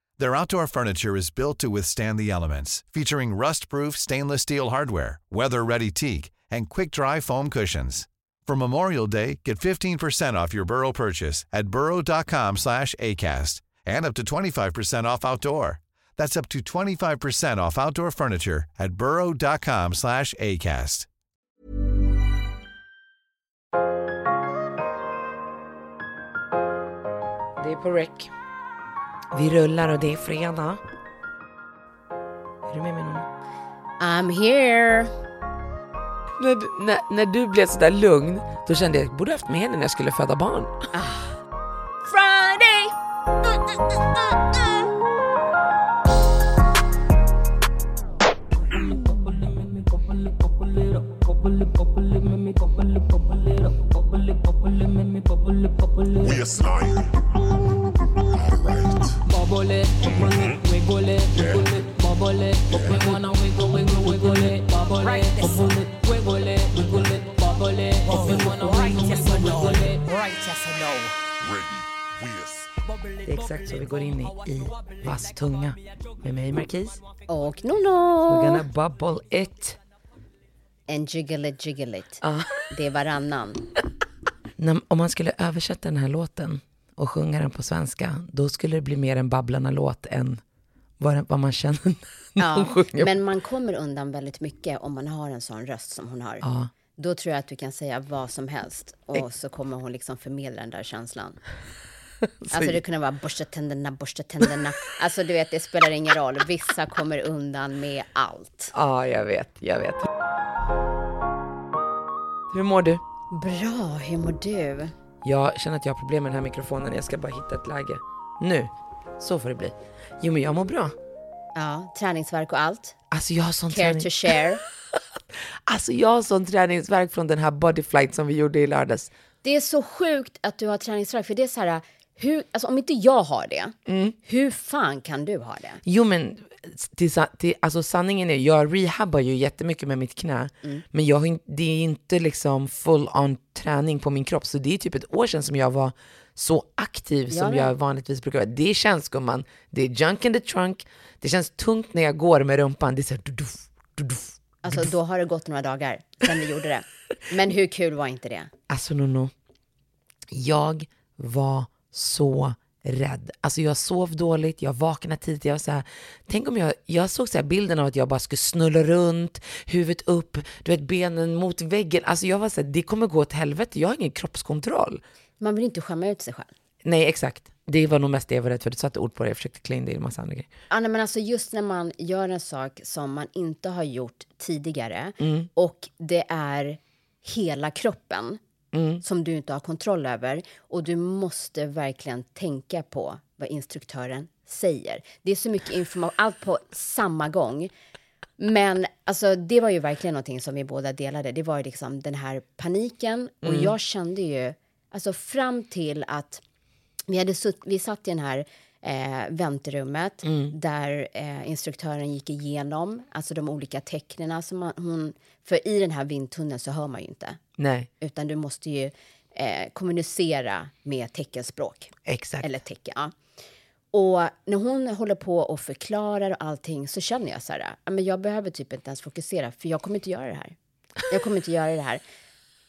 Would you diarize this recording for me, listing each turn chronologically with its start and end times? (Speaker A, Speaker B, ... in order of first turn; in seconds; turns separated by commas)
Speaker A: 0.2-21.1, Speaker B: 27.6-28.3, Speaker B: 29.3-30.8, Speaker B: 32.7-33.3, Speaker C: 34.0-35.1, Speaker B: 36.4-40.8, Speaker C: 40.9-41.4, Speaker C: 42.0-42.9, Speaker D: 56.2-57.1, Speaker D: 58.4-59.1, Speaker E: 59.4-71.2, Speaker D: 60.1-60.6, Speaker D: 61.4-61.7, Speaker D: 62.7-63.1, Speaker D: 71.4-72.6, Speaker B: 73.2-77.0, Speaker C: 77.3-78.6, Speaker B: 78.3-79.8, Speaker C: 80.9-83.7, Speaker B: 82.2-82.7, Speaker B: 84.6-90.4, Speaker B: 91.0-93.1, Speaker C: 92.4-96.4, Speaker B: 96.4-96.7, Speaker C: 97.0-101.4, Speaker B: 102.4-102.8, Speaker C: 102.5-108.7, Speaker B: 108.7-110.1, Speaker B: 112.5-113.0, Speaker C: 113.3-114.9, Speaker B: 115.2-121.0, Speaker C: 121.6-123.0, Speaker B: 123.1-124.4, Speaker C: 123.7-124.6, Speaker B: 125.7-129.1, Speaker C: 129.4-133.7, Speaker B: 133.9-134.2, Speaker C: 134.2-135.8, Speaker B: 135.9-154.9, Speaker C: 147.3-147.7, Speaker C: 154.6-158.5, Speaker B: 158.7-159.3, Speaker B: 160.3-175.0, Speaker C: 175.4-176.5, Speaker B: 176.8-180.5, Speaker C: 180.7-188.4, Speaker B: 185.2-185.5, Speaker B: 188.7-189.0, Speaker C: 189.0-197.7, Speaker C: 198.4-206.4, Speaker B: 203.4-203.7, Speaker C: 207.1-217.4, Speaker B: 210.2-210.5, Speaker B: 217.6-217.9, Speaker C: 218.0-223.1, Speaker B: 222.1-222.5, Speaker C: 223.9-230.6, Speaker C: 231.1-232.0